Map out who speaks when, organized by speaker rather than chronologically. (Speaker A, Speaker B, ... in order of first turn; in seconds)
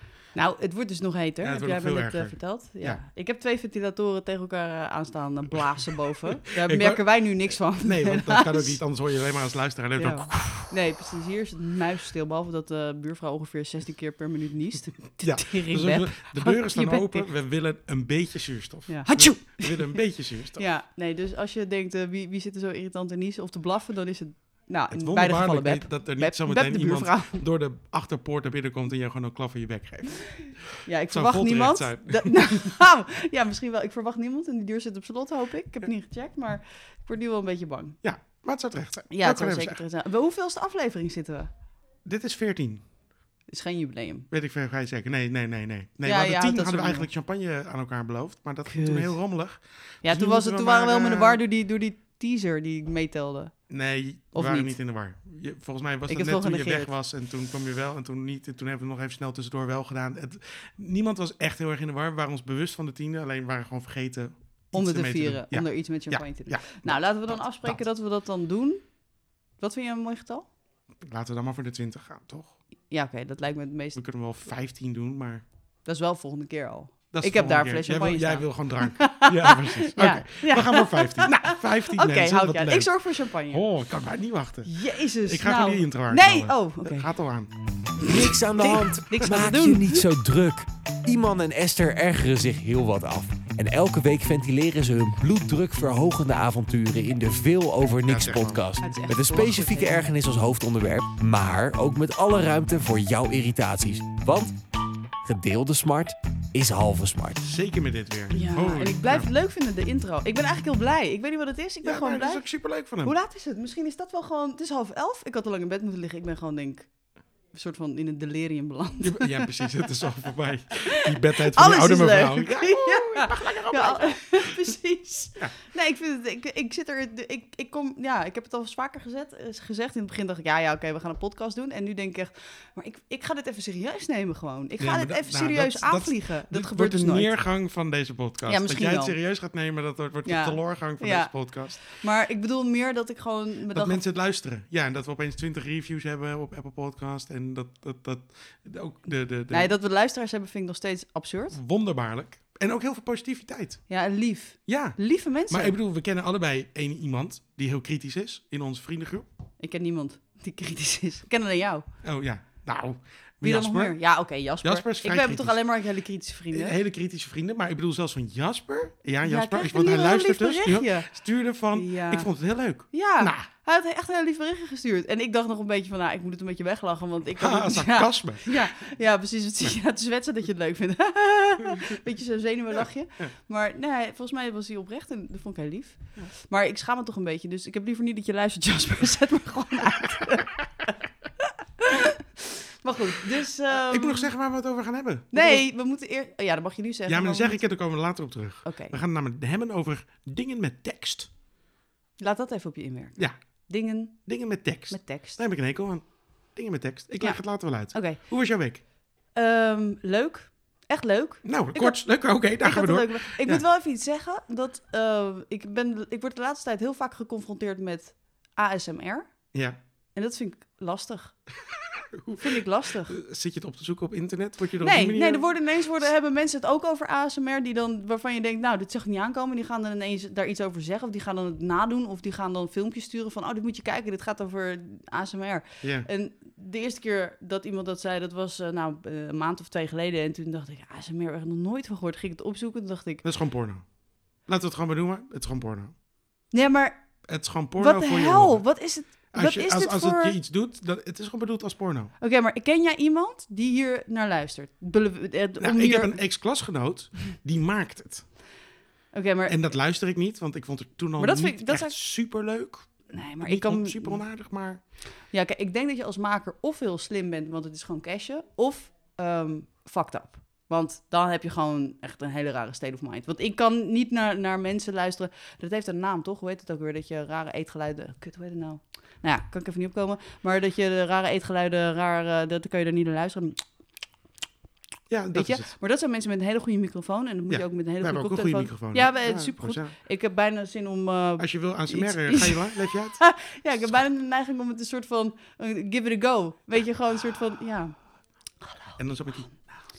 Speaker A: 0.3-8.8, 10.0-17.3, 18.9-20.0, 20.6-27.4, 30.9-38.0, 39.1-41.5, 43.5-44.3, 46.0-47.1, 48.7-49.2, 50.0-53.5, 54.3-54.8, 56.1-56.9, 64.7-68.8, 69.6-70.5, 72.9-74.0, 75.9-83.6, 84.7-87.1, 88.0-90.0, 98.8-100.1, 108.3-112.4, 113.0-116.9, 117.5-119.9, 120.7-137.3, 138.5-139.2, 140.2-144.0, 149.5-151.6, 153.9-155.8, 159.6-161.9, 163.4-166.8, 169.2-171.1, 171.7-172.3, 172.9-194.3, 195.3-197.6, 198.7-198.9, 202.2-203.2, 203.7-204.3, 204.9-205.4, 207.2-208.2, 209.3-219.3, 220.2-221.4, 222.4-223.2, 224.8-243.2, 246.5-247.0, 247.8-250.4, 252.2-256.2, 259.1-259.6, 261.2-262.0, 263.1-264.2, 265.3-283.6, 285.3-298.0
Speaker B: 1.4-3.0, 5.9-10.7, 15.2-20.7, 24.9-32.8, 38.0-39.8, 42.0-42.8, 44.3-51.4, 53.7-67.8, 71.0-72.6, 74.0-75.4, 77.1-87.5, 88.6-89.3, 98.0-98.7, 107.4-109.3, 111.8-113.1, 119.0-124.8, 134.8-141.8, 143.7-149.8, 151.5-153.8, 154.7-159.3, 162.0-164.0, 164.6-165.6, 166.5-173.5, 177.4-178.6, 193.7-195.6, 197.1-201.3, 204.3-208.8, 211.4-213.6, 221.7-225.7, 235.8-236.1, 243.2-243.8, 244.5-245.9, 247.3-248.7, 249.3-252.1, 255.6-258.3, 259.5-264.8, 285.1-285.8, 287.5-289.9, 291.4-293.2, 299.0-299.5
Speaker C: 88.0-104.5, 105.2-107.4